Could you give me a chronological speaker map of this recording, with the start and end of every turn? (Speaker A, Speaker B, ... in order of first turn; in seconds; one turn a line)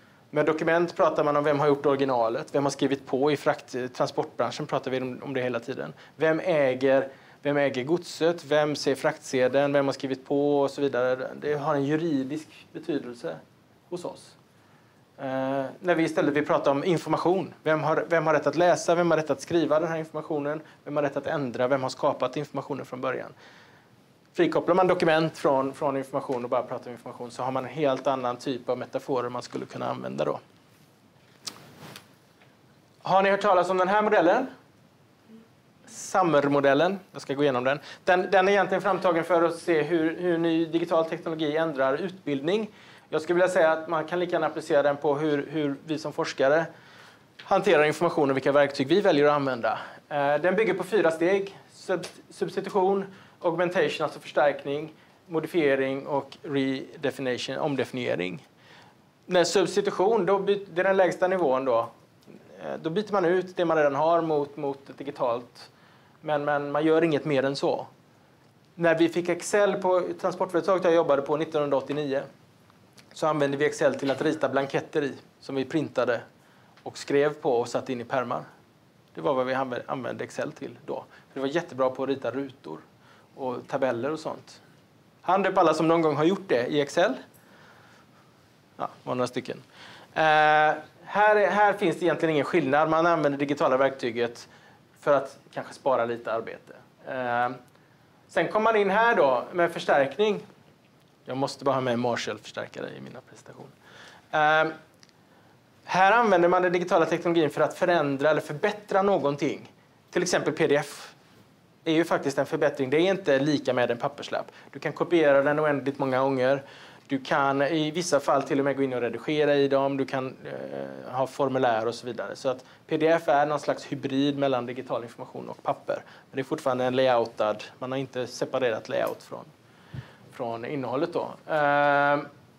Speaker A: 0.3-14.3
Speaker A: 15.2-23.3
Speaker A: 24.3-30.4
Speaker A: 33.0-34.5
Speaker A: 35.9-46.7
Speaker A: 47.4-58.4
Speaker A: 59.3-61.9
Speaker A: 62.5-65.7
Speaker A: 66.2-67.9
Speaker A: 68.8-72.2
Speaker A: 73.1-76.2
Speaker A: 76.8-78.5
Speaker A: 79.1-82.8
Speaker A: 83.3-84.6
Speaker A: 85.2-87.2
Speaker A: 88.8-89.6
Speaker A: 90.1-94.5
Speaker A: 95.0-97.6
Speaker A: 98.3-100.4
Speaker A: 101.2-103.7
Speaker A: 104.3-104.7
Speaker A: 105.8-111.1
Speaker A: 111.8-129.5
Speaker A: 130.3-132.3